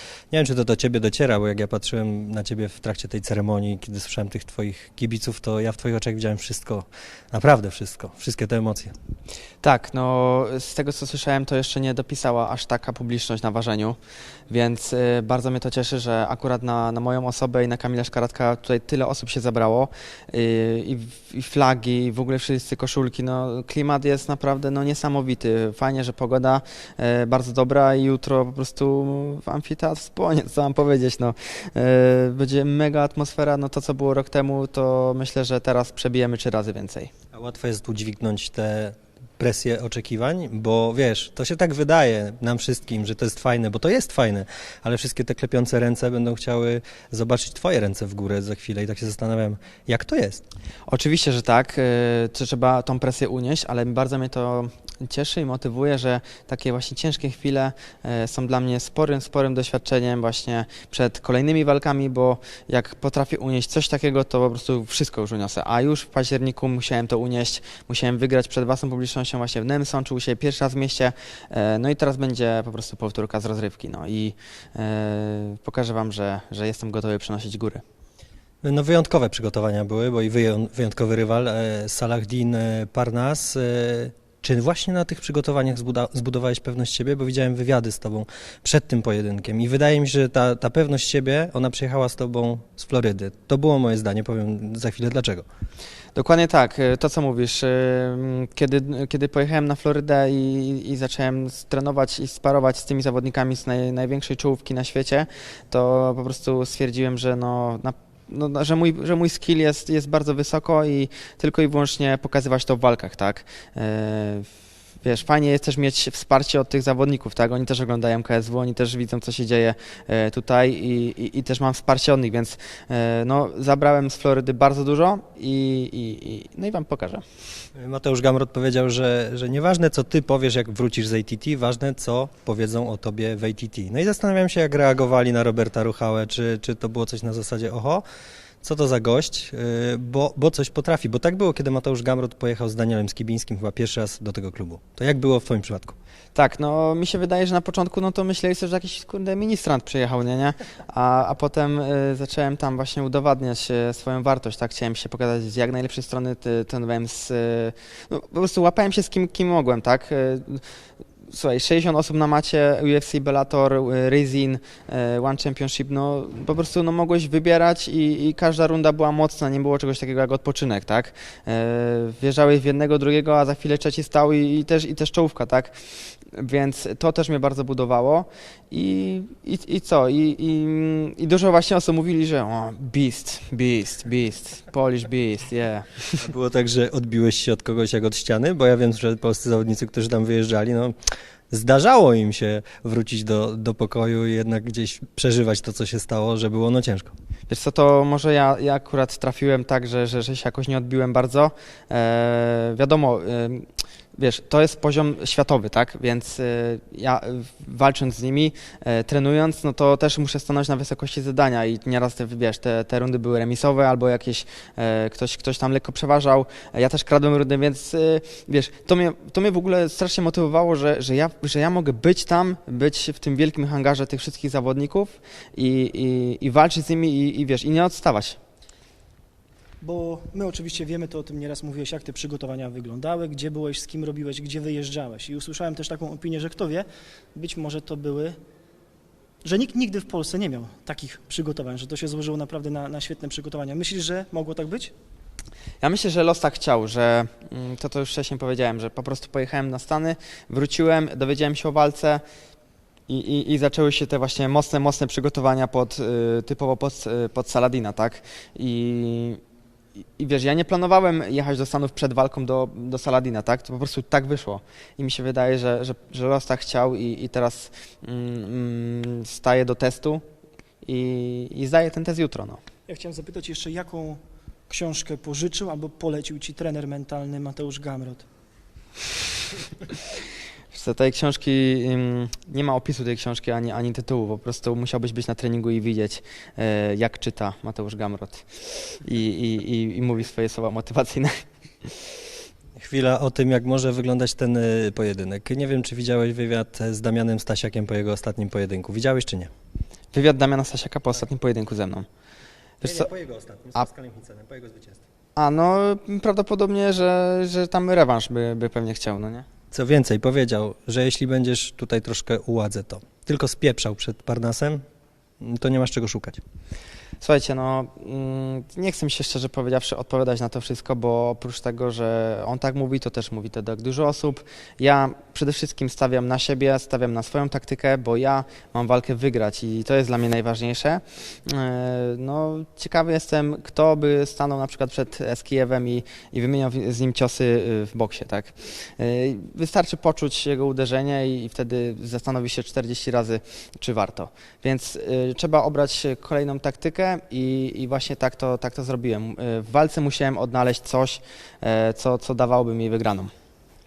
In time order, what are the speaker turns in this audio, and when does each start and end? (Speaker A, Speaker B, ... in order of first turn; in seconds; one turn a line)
Speaker A: 0.3-8.9
Speaker B: 9.6-14.0
Speaker B: 14.5-37.1
Speaker A: 37.3-50.4
Speaker B: 50.9-77.8
Speaker A: 78.6-95.5
Speaker B: 96.2-114.5
Speaker B: 115.0-127.2
Speaker A: 127.8-138.0
Speaker A: 138.6-146.0
Speaker B: 146.3-160.6
Speaker B: 161.3-175.8
Speaker B: 176.3-186.2
Speaker A: 186.2-190.9
Speaker A: 191.5-197.1
Speaker B: 197.5-228.4
Speaker C: 229.8-238.4
Speaker C: 239.4-244.9
Speaker B: 245.8-252.2
Speaker B: 253.1-259.4
Speaker B: 260.2-270.2
Speaker B: 270.8-272.6
Speaker C: 272.9-278.3
Speaker B: 280.7-291.9
Speaker A: 292.8-299.5
Speaker B: 300.1-302.1
Speaker B: 302.8-303.1
Speaker A: 302.8-305.0
Speaker B: 305.4-309.5
Speaker A: 309.7-314.8
Speaker A: 315.4-316.4
Speaker B: 317.2-353.3